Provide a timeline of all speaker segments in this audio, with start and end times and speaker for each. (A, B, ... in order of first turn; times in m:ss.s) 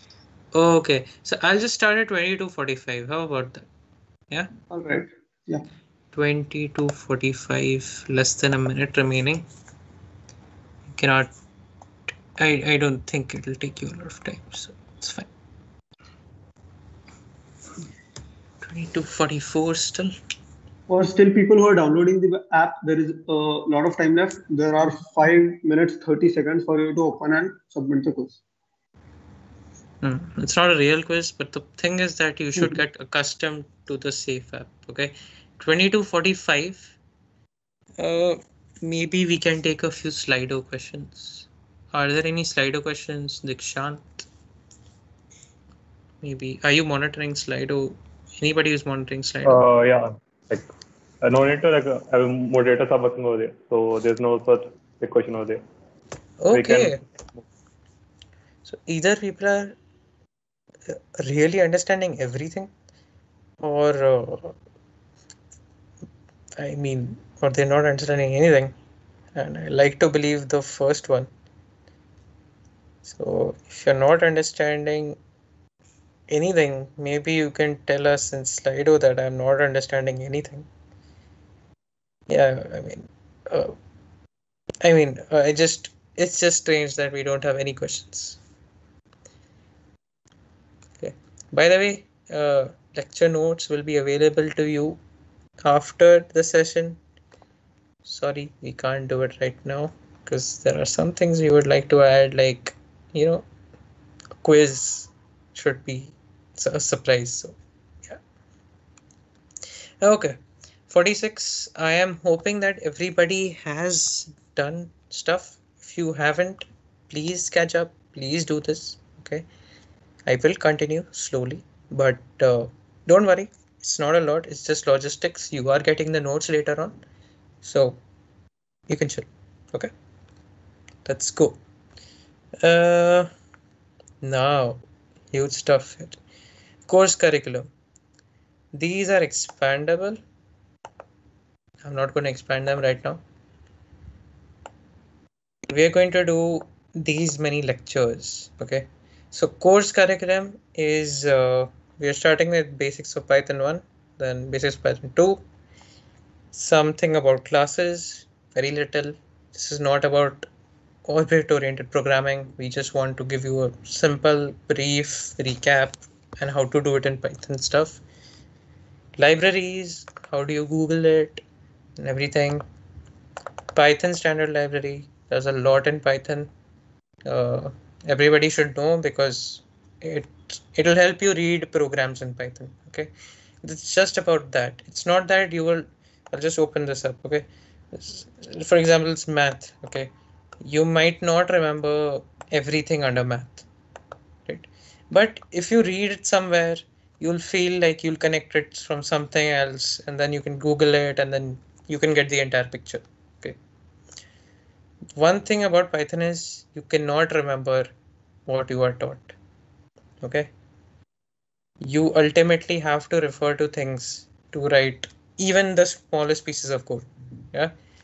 0:00.5-0:03.7 A
0:04.7-0:05.7 B
0:06.1-0:09.5 A
0:11.0-0:11.3 A
0:12.4-0:15.3 A
0:18.6-0:20.1 A
0:20.9-0:28.4 B
0:30.0-0:37.0 A
0:38.0-0:44.3 A
0:46.2-0:49.6 A
0:49.4-0:50.7 C
0:51.2-0:55.6 C
0:56.4-0:57.0 A
0:56.5-0:57.0 C
0:58.7-0:59.8 A
1:00.9-1:02.7 A
1:03.6-1:04.6 A
1:06.6-1:08.8 A
1:09.4-1:11.3 A
1:13.0-1:15.2 A
1:16.3-1:20.7 A
1:22.3-1:23.8 A
1:24.8-1:28.4 A
1:31.0-1:35.0 A
1:35.6-1:37.0 A
1:38.0-1:43.5 A
1:44.4-1:48.2 A
1:50.0-1:50.4 A
1:50.9-1:59.5 A
2:00.3-2:07.0 A
2:07.6-2:08.0 A
2:08.9-2:09.9 A
2:11.1-2:11.6 A
2:12.6-2:13.3 A
2:14.2-2:14.8 A
2:15.3-2:16.2 A
2:16.9-2:17.7 A
2:18.7-2:20.2 A
2:21.8-2:23.2 A
2:25.7-2:35.4 A
2:36.5-2:40.5 A
2:41.1-2:48.0 A
2:49.2-2:51.4 A
2:52.0-2:52.6 A
2:53.8-2:56.5 A
2:57.3-3:03.1 A
3:03.6-3:10.1 A
3:10.6-3:13.7 A
3:14.5-3:23.6 A
3:25.2-3:27.9 A
3:28.5-3:29.3 A
3:30.2-3:30.5 A
3:31.8-3:37.7 A